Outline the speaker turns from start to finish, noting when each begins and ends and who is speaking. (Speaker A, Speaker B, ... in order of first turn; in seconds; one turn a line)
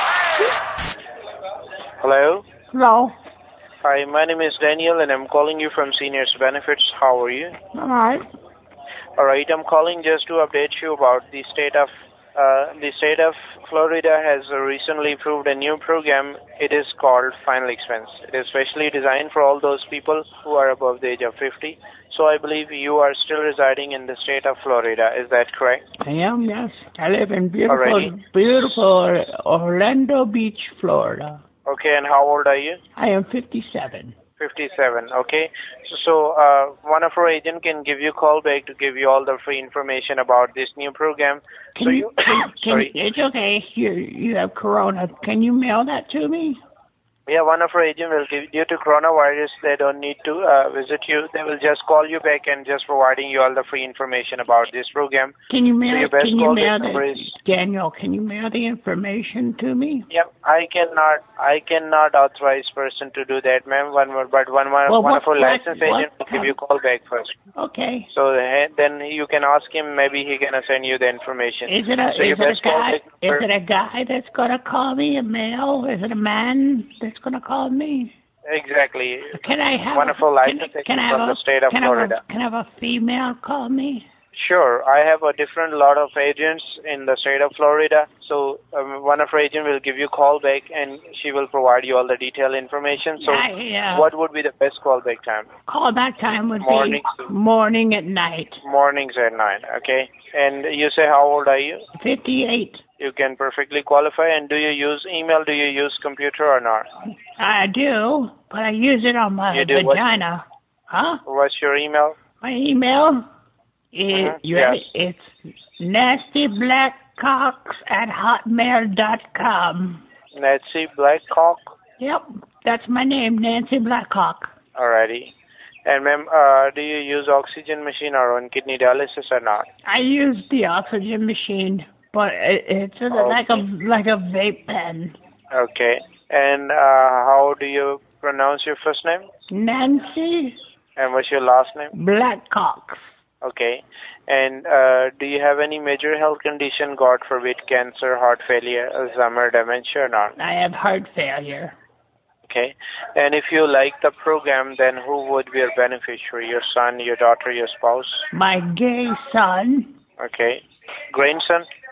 Speaker A: 2.0-2.4
Speaker B: 2.7-3.1
Speaker A: 3.8-7.5
Speaker B: 7.7-8.2
Speaker A: 9.2-25.8
Speaker B: 26.0-31.4
Speaker A: 27.7-28.1
Speaker A: 31.6-32.8
Speaker B: 33.0-34.1
Speaker A: 34.4-42.9
Speaker B: 41.8-46.6
Speaker A: 47.3-55.3
Speaker B: 55.5-60.0
Speaker A: 55.9-57.3
Speaker A: 60.1-67.3
Speaker B: 64.9-66.5
Speaker B: 67.6-68.1
Speaker A: 68.1-73.5
Speaker B: 71.7-78.1
Speaker A: 78.5-79.4
Speaker B: 79.3-84.0
Speaker A: 79.9-82.2
Speaker A: 84.3-95.5
Speaker B: 93.2-94.1
Speaker B: 95.7-98.6
Speaker A: 96.6-97.3
Speaker A: 98.6-101.8
Speaker B: 102.0-102.8
Speaker A: 103.0-106.9
Speaker B: 107.3-111.2
Speaker A: 109.5-110.1
Speaker A: 111.2-112.2
Speaker B: 112.4-113.2
Speaker B: 113.9-120.0
Speaker A: 114.1-114.8
Speaker A: 120.3-121.7
Speaker B: 122.0-124.5
Speaker A: 124.8-125.3
Speaker A: 125.8-129.7
Speaker B: 129.8-135.2
Speaker A: 133.1-133.6
Speaker A: 135.5-139.3
Speaker B: 139.5-140.6
Speaker A: 141.0-141.9
Speaker B: 141.9-143.0
Speaker A: 143.4-150.3
Speaker B: 150.4-151.8
Speaker A: 152.4-158.2
Speaker B: 158.3-159.9
Speaker A: 160.2-161.7